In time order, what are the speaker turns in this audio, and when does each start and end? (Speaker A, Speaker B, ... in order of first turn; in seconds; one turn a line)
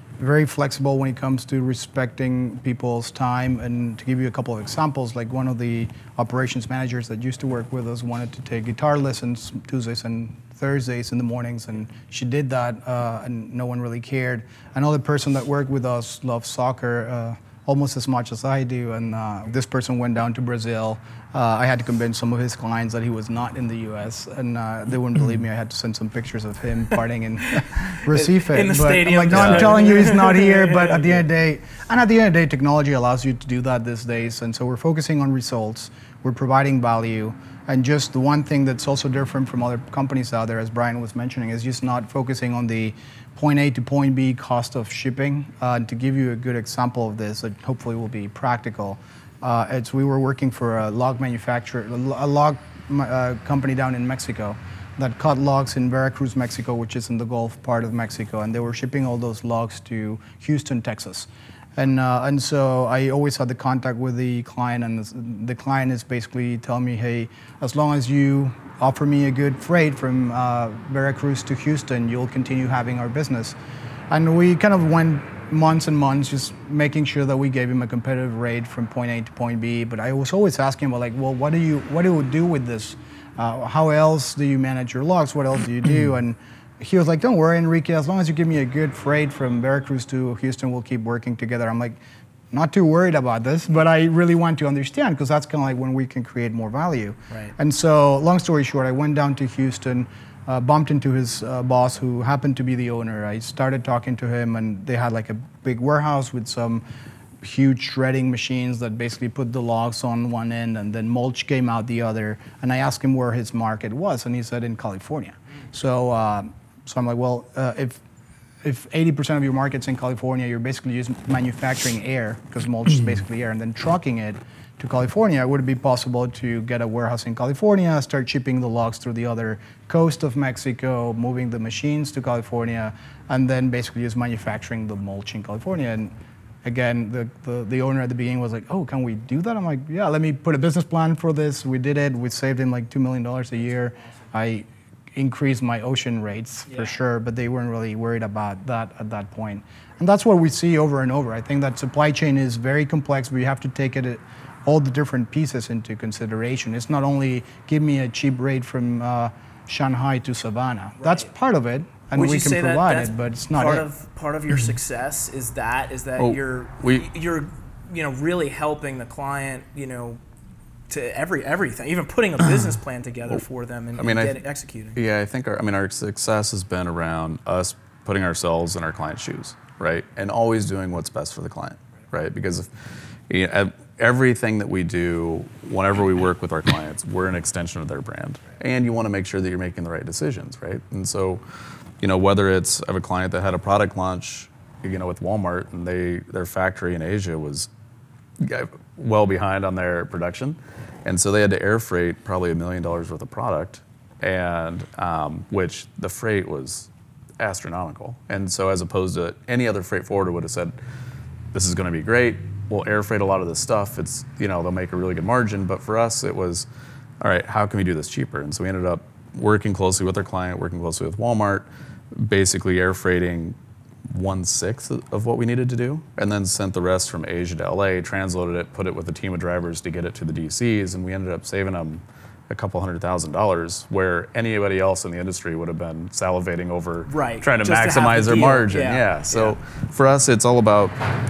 Speaker A: 0.2-73.6
Speaker B: 27.8-31.0
Speaker C: 29.3-29.8
Speaker A: 74.1-92.0
Speaker A: 92.5-106.8
Speaker B: 97.3-97.5
Speaker A: 107.4-118.0
Speaker A: 118.6-136.1
Speaker A: 136.6-163.9
Speaker B: 161.0-161.3
Speaker B: 162.1-170.2
Speaker C: 166.2-167.1
Speaker B: 170.9-175.0
Speaker C: 174.0-174.4
Speaker C: 174.9-182.7
Speaker C: 183.3-191.4
Speaker C: 192.0-197.7
Speaker C: 198.4-210.8
Speaker C: 211.5-216.7
Speaker C: 217.2-223.6
Speaker C: 224.1-241.0
Speaker B: 237.1-239.6